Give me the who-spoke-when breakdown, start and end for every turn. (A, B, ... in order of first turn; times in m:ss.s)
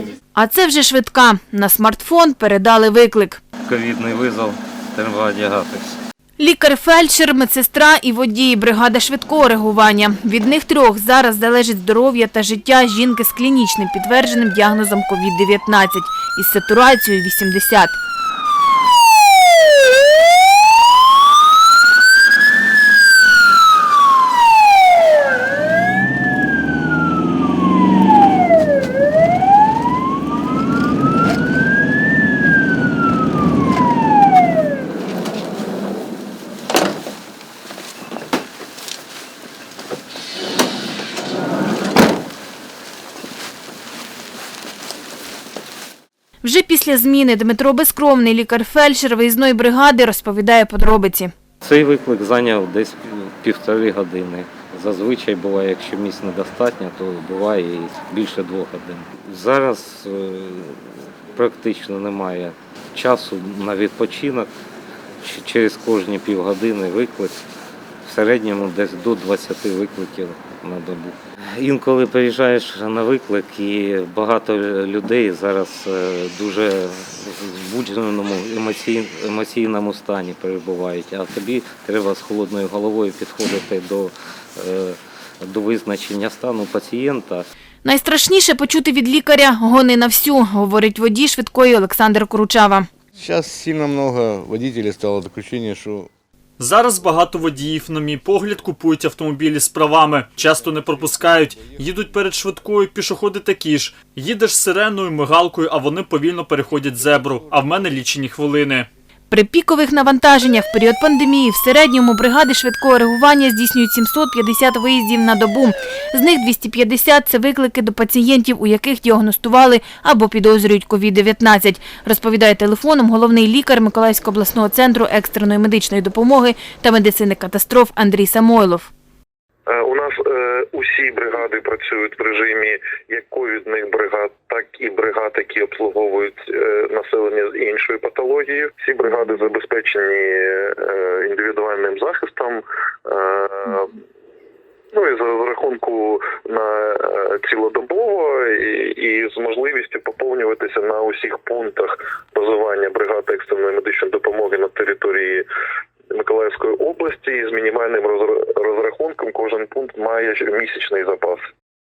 0:00.3-0:03.4 A
0:03.7-0:06.0 B
0:06.4-0:18.0 A
0:46.4-0:51.3 A
0:51.6-1:04.5 B
1:05.2-1:07.4 B
1:08.0-1:27.5 B
1:27.8-1:32.9 A
1:33.2-1:36.1 C
1:36.6-1:48.9 D
1:41.5-1:41.8 C
1:49.3-2:08.9 A
2:09.7-2:23.9 E
2:24.9-2:35.5 E
2:36.1-2:41.4 E